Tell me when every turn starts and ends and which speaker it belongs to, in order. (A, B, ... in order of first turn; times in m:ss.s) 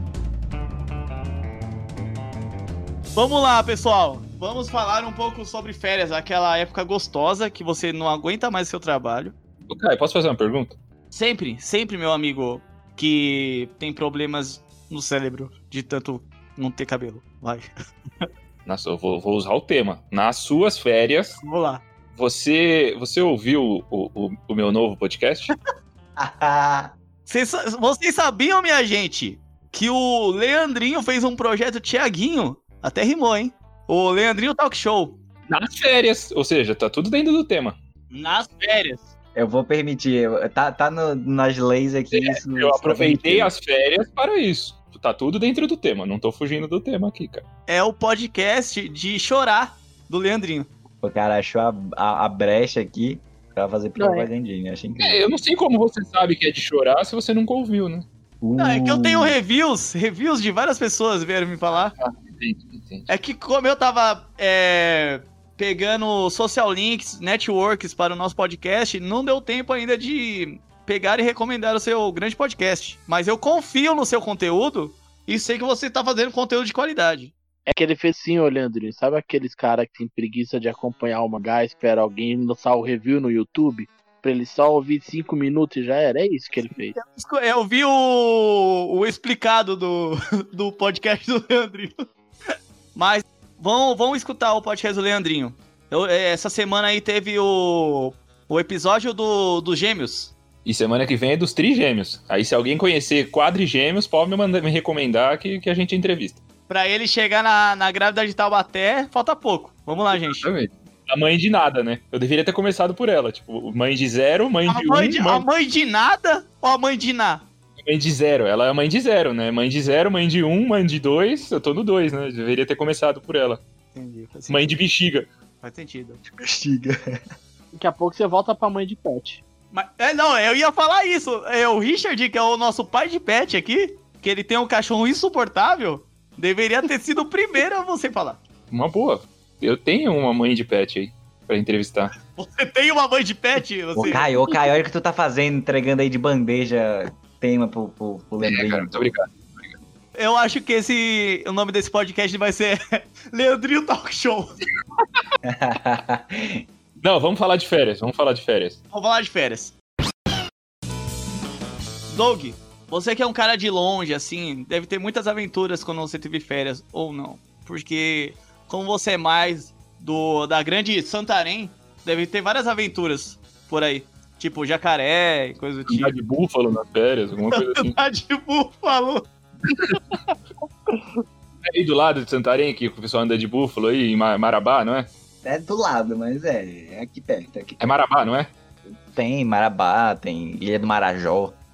0:03.1-0:09.3 A
0:09.7-0:10.8 B
0:11.1-0:18.3 A
0:18.6-0:21.4 B
0:21.4-0:21.8 A
0:22.1-0:25.5 B
0:26.2-0:26.9 C
0:27.2-0:35.2 A
0:35.5-0:37.8 B
0:38.1-0:39.1 A
0:39.3-0:43.5 C
0:42.1-0:47.4 B
0:47.7-0:50.7 A
0:51.0-0:55.2 C
0:54.0-0:54.3 D
0:55.0-0:58.0 B
0:58.4-0:59.4 C
0:58.6-1:01.9 A
1:02.0-1:03.1 B
1:03.1-1:17.3 A
1:17.6-1:27.0 D
1:26.8-1:32.0 A
1:32.9-1:40.3 A
1:40.6-1:46.4 B
1:46.7-1:50.4 A
1:50.1-1:55.4 B
1:54.7-1:57.4 A
1:57.8-2:03.6 B
2:03.9-2:04.7 A
2:04.5-2:05.3 B
2:05.6-2:06.2 A
2:06.3-2:07.2 C
2:07.7-2:09.4 D
2:09.7-2:18.4 A
2:18.7-2:22.1 B
2:22.4-2:24.2 A
2:24.0-2:29.1 C
2:28.4-2:29.8 B
2:30.1-2:34.6 A
2:35.4-2:36.6 C
2:37.0-2:38.8 B
2:38.9-2:39.7 A
2:42.1-2:56.1 A
2:55.9-2:58.0 B
2:57.4-2:59.2 A
2:59.7-3:00.0 B
3:01.6-3:05.1 B
3:05.4-3:07.8 C
3:07.8-3:08.5 B
3:09.1-3:11.6 C